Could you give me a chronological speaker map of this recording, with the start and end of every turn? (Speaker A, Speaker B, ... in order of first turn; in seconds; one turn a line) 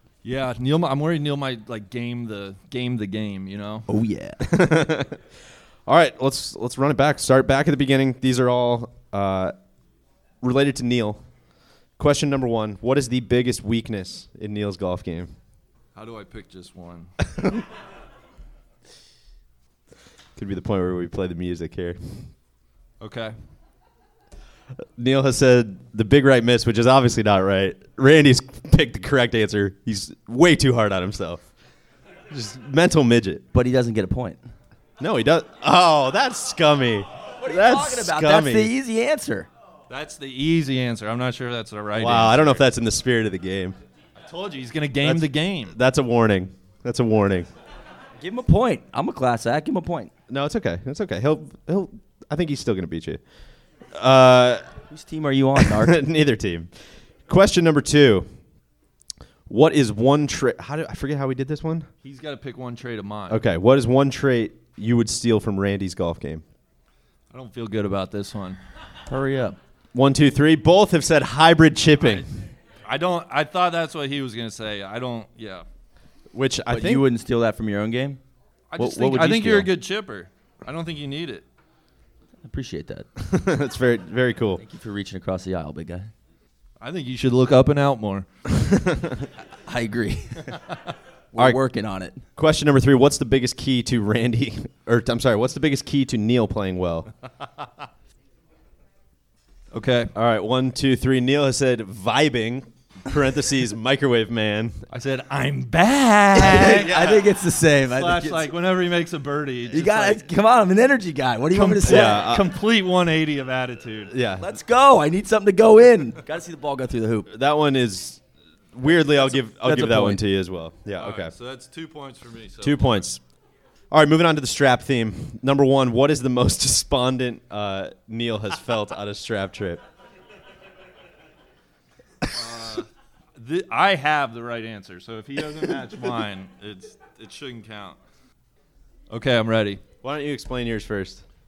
Speaker A: 0.2-3.9
Speaker B: 3.9-4.4
Speaker C: 4.4-5.2
Speaker C: 5.9-9.5
Speaker C: 10.4-11.2
Speaker C: 12.0-15.3
Speaker A: 15.9-17.1
Speaker C: 20.4-22.3
Speaker A: 23.0-23.3
Speaker C: 25.0-31.4
Speaker C: 32.3-33.4
Speaker B: 33.5-34.4
Speaker C: 35.0-38.7
Speaker B: 37.4-39.5
Speaker A: 39.9-42.6
Speaker C: 42.0-43.8
Speaker A: 44.2-45.8
Speaker C: 45.0-47.5
Speaker B: 48.2-50.1
Speaker C: 50.3-53.2
Speaker C: 53.9-54.7
Speaker B: 54.9-56.0
Speaker C: 55.6-56.7
Speaker C: 57.2-58.3
Speaker C: 59.5-61.9
Speaker A: 62.0-63.4
Speaker C: 63.3-66.4
Speaker A: 67.3-68.6
Speaker B: 69.1-69.6
Speaker C: 69.9-72.2
Speaker A: 72.0-72.2
Speaker A: 72.9-75.6
Speaker C: 76.3-77.0
Speaker B: 76.7-78.2
Speaker A: 78.7-81.4
Speaker B: 78.8-79.7
Speaker B: 82.4-83.1
Speaker C: 83.2-84.6
Speaker B: 84.6-86.1
Speaker A: 86.8-88.2
Speaker C: 88.5-89.2
Speaker B: 89.5-90.6
Speaker B: 91.3-92.2
Speaker C: 92.4-97.1
Speaker A: 99.7-100.1
Speaker C: 100.1-104.8
Speaker A: 104.9-107.2
Speaker B: 106.3-108.5
Speaker A: 107.9-110.2
Speaker B: 109.7-112.3
Speaker A: 111.5-114.1
Speaker C: 111.8-112.5
Speaker C: 114.1-114.5
Speaker B: 114.4-117.3
Speaker C: 117.3-118.2
Speaker C: 118.7-121.3
Speaker B: 119.3-120.2
Speaker A: 121.0-123.0
Speaker C: 122.6-123.2
Speaker C: 123.9-129.8
Speaker A: 132.3-138.0
Speaker A: 139.1-139.8
Speaker C: 140.0-141.2